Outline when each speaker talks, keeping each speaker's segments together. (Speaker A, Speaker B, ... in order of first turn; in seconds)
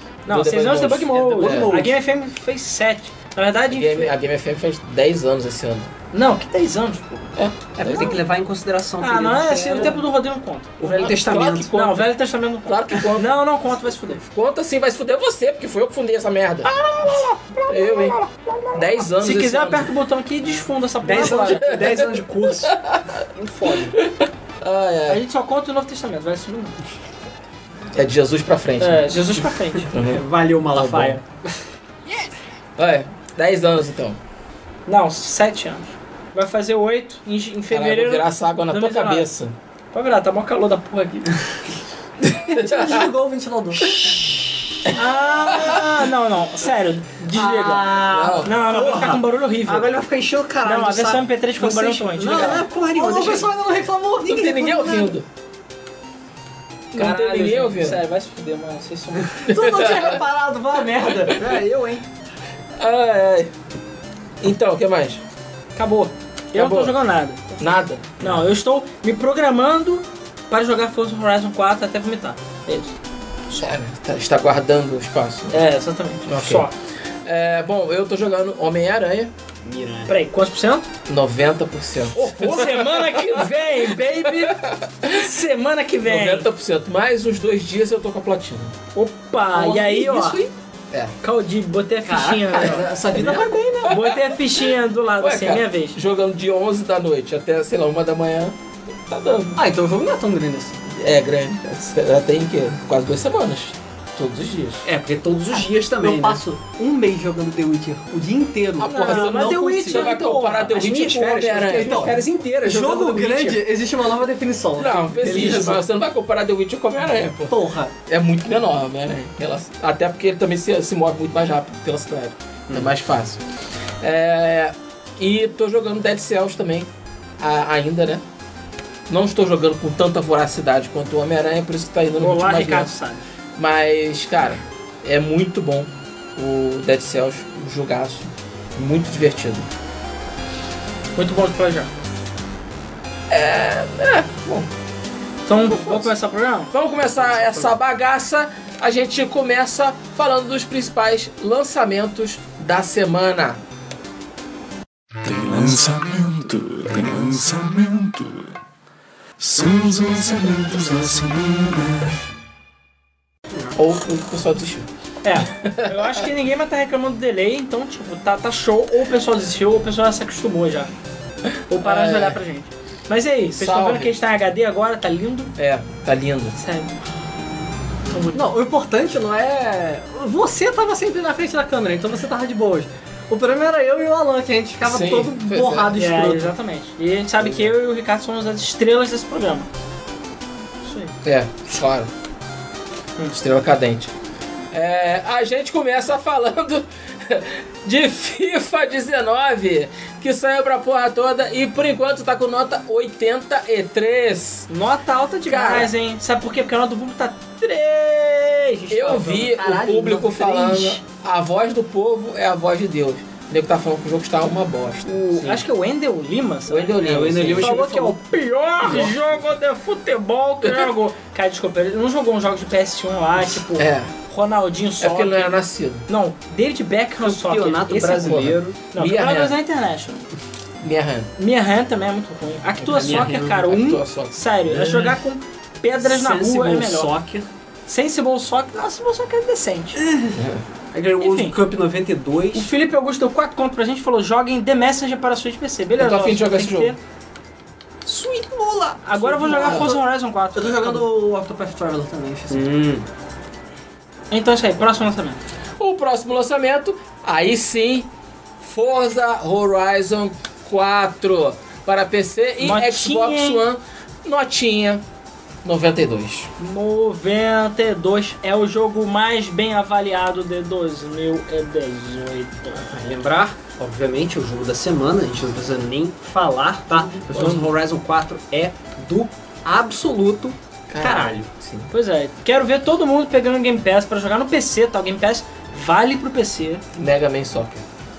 Speaker A: 0.3-4.1, 6.1-7.3, 9.0-14.2, 16.8-22.0, 23.3-24.0, 25.1-26.8, 28.8-29.9, 34.9-39.3, 39.9-41.3, 44.9-50.0, 50.6-52.7, 56.9-59.4, 65.8-73.0, 75.5-76.7, 80.1-80.9, 82.1-86.5, 88.9-90.5, 91.2-92.9, 93.8-96.0, 108.9-111.2, 132.2-133.2, 141.2-141.9, 145.5-146.7, 165.2-170.9, 171.7-175.5, 176.6-177.0, 178.1-178.4, 185.9-189.7, 190.8-191.1, 204.7-208.9, 215.1-230.3, 231.4-237.1, 237.9-240.0, 241.2-241.6, 242.5-247.0, 249.0-251.1, 254.3-255.4, 262.6-263.6, 266.6-273.0, 281.9-286.8
Speaker B: 0.3-1.7, 3.7-5.9, 7.3-8.2, 10.9-12.1, 12.7-13.4, 14.2-16.7, 17.7-18.2, 18.7-19.9, 21.6-23.2, 23.7-25.2, 27.9-29.1, 29.9-31.2, 32.8-34.2, 37.7-39.6, 42.5-43.1, 45.5-45.9, 48.1-48.5, 54.2-55.3, 56.9-58.0, 59.4-60.2, 62.8-63.5, 64.4-65.2, 66.5-67.0, 67.6-68.2, 73.5-75.7, 76.3-76.7, 77.2-79.3, 81.1-83.5, 84.2-85.3, 86.0-88.8, 89.6-91.1, 92.5-92.8, 93.8-94.6, 95.2-98.5, 99.1-99.6, 100.9-104.8, 108.8-112.2, 114.8-123.4, 124.0-126.9, 127.4-128.2, 129.1-132.9, 133.6-139.7, 143.3-144.7, 145.7-146.1, 146.7-153.6, 163.7-164.9, 165.4-166.2, 171.8-172.4, 173.6-174.2, 175.6-176.6, 184.8-185.9, 187.4-187.7, 191.2-192.1, 193.3-194.1, 194.7-204.7, 205.5-205.9, 208.9-215.2, 216.7-217.8, 218.8-219.1, 220.6-220.9, 223.7-224.1, 225.0-226.1, 228.1-229.6, 230.8-231.3, 232.9-234.4, 240.3-240.6, 246.0-246.9, 255.8-258.1, 258.6-265.0, 265.6-266.5, 277.3-277.7, 280.9-281.9, 286.9-287.8
Speaker C: 1.1-2.0, 7.8-10.0, 10.8-11.7, 21.0-22.7, 29.8-31.2, 47.3-53.5, 61.4-61.7, 79.6-80.1, 92.1-93.8, 104.8-106.4, 109.8-110.1, 110.8-113.6, 115.2-115.8, 147.3-147.7, 208.9-210.8, 217.0-218.2, 227.2-228.8, 232.9-233.6, 234.7-235.1, 236.0-237.5, 240.0-242.7, 248.1-249.9, 252.5-253.1, 272.8-281.5
Speaker D: 42.4-44.2, 47.3-48.4, 52.2-55.1, 59.5-62.0, 92.1-93.8, 99.6-100.8, 106.0-110.1, 111.7-115.8, 117.5-117.9, 178.3-186.5, 209.5-210.3, 249.4-250.0, 250.6-252.7
Speaker E: 155.2-158.5, 159.4-162.1